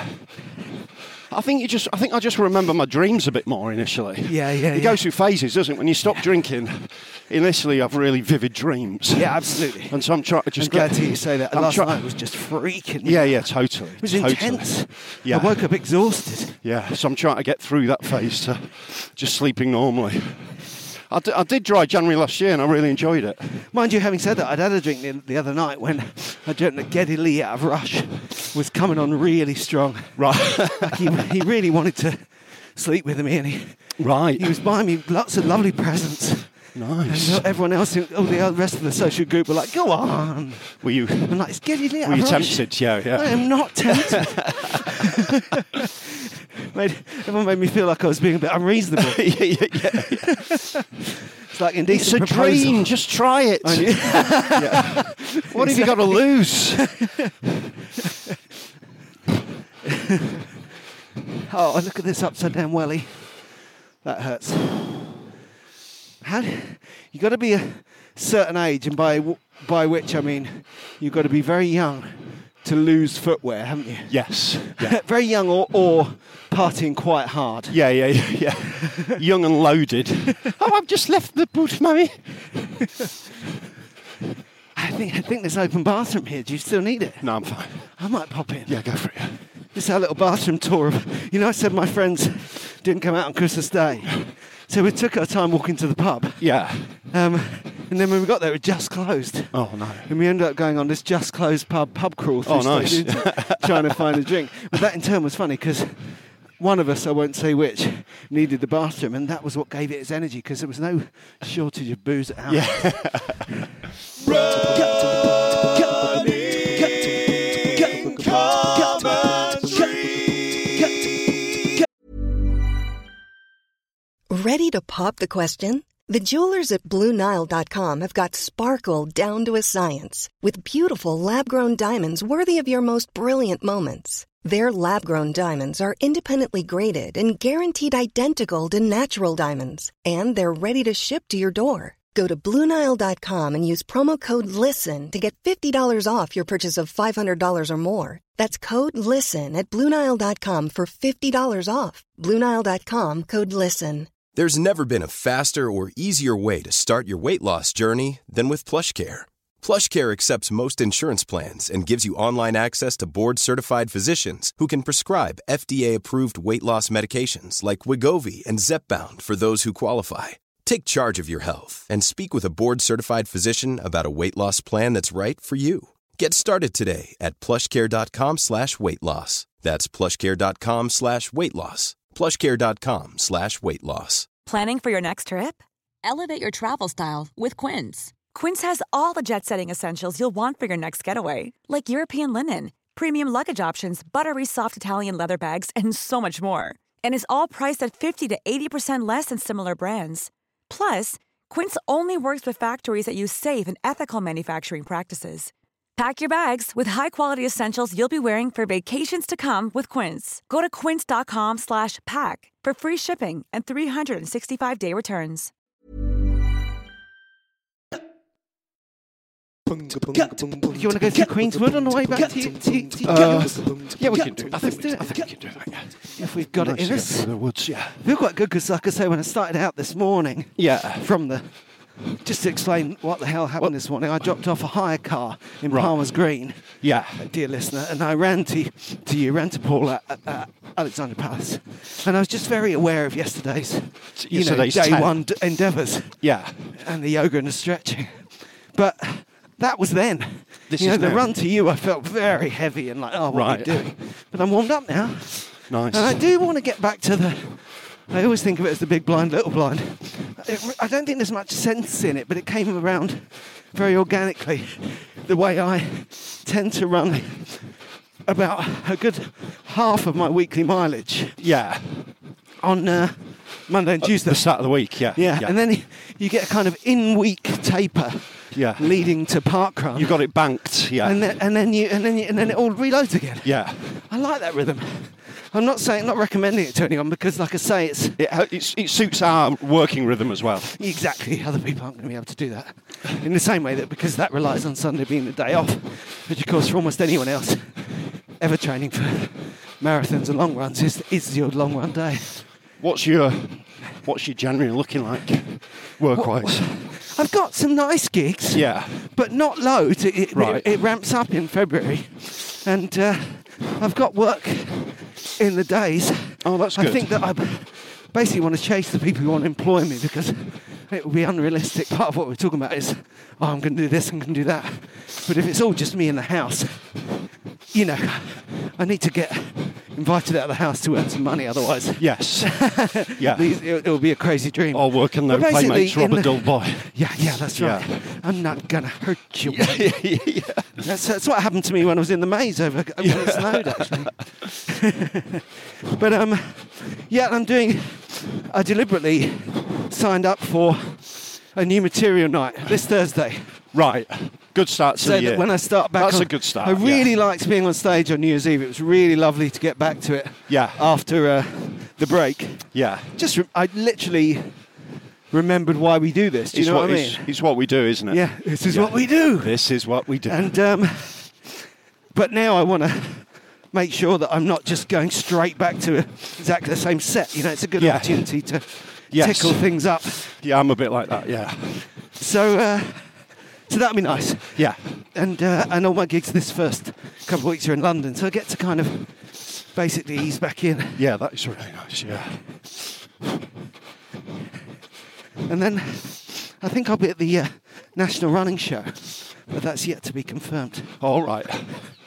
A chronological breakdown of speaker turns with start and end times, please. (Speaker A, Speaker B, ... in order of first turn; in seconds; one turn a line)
Speaker A: 1.3-12.1
Speaker B: 4.2-5.1
Speaker B: 9.1-16.6
Speaker A: 13.0-15.6
Speaker A: 16.6-23.5
Speaker B: 23.7-46.1
Speaker A: 30.2-31.1
Speaker A: 34.0-34.6
Speaker A: 36.7-37.5
Speaker A: 40.8-44.7
Speaker B: 46.7-50.8
Speaker A: 49.0-50.5
Speaker B: 51.5-53.0
Speaker A: 51.9-56.9
Speaker B: 53.6-57.3
Speaker B: 59.9-60.4
Speaker B: 61.5-63.5
Speaker B: 64.0-65.1
Speaker B: 66.2-77.8
Speaker A: 74.1-75.0
Speaker A: 77.7-82.2
Speaker B: 84.7-87.3
Speaker A: 87.2-87.9
Speaker B: 87.9-88.8
Speaker A: 88.7-89.4
Speaker B: 89.7-113.2
Speaker A: 96.4-96.9
Speaker A: 99.5-100.1
Speaker A: 102.4-104.2
Speaker A: 112.5-113.5
Speaker B: 115.7-117.0
Speaker B: 117.7-119.9
Speaker C: 124.3-154.2
Speaker D: 154.3-184.3
Speaker E: 184.4-185.6
Speaker E: 188.2-215.5
Speaker B: 220.1-231.5
Speaker A: 223.0-228.0
Speaker A: 230.6-231.1
Speaker B: 232.0-236.6
Speaker A: 235.7-236.0
Speaker A: 236.6-237.2
Speaker B: 237.2-246.2
Speaker A: 244.2-245.2
Speaker A: 246.2-246.6
Speaker B: 246.7-267.7
Speaker A: 250.7-251.3
Speaker A: 253.3-253.9
Speaker A: 255.7-256.2
Speaker B: 268.2-271.4
Speaker A: 271.4-272.1
Speaker B: 272.6-288.2
Speaker A: 274.0-275.5
Speaker A: 278.5-278.9
Speaker A: 279.9-281.2
Speaker A: 283.4-283.8
Speaker A: 288.2-290.7
Speaker B: 290.7-302.4
Speaker A: 302.8-306.7
Speaker B: 306.1-327.1
Speaker A: 308.5-309.0
Speaker A: 310.3-310.7
Speaker A: 316.4-317.2
Speaker B: 327.7-340.1
Speaker A: 332.0-333.4
Speaker A: 334.7-337.9
Speaker A: 339.4-340.8
Speaker B: 340.8-353.6
Speaker A: 343.0-343.9
Speaker A: 353.7-357.1
Speaker B: 355.0-364.6
Speaker A: 360.5-360.8
Speaker A: 362.7-363.1
Speaker B: 365.3-367.4
Speaker A: 366.5-370.6
Speaker B: 368.1-371.5
Speaker B: 372.1-380.2
Speaker A: 377.8-381.9
Speaker B: 382.2-391.0
Speaker A: 384.6-384.8
Speaker A: 390.9-392.4
Speaker B: 395.4-401.0
Speaker A: 401.0-401.9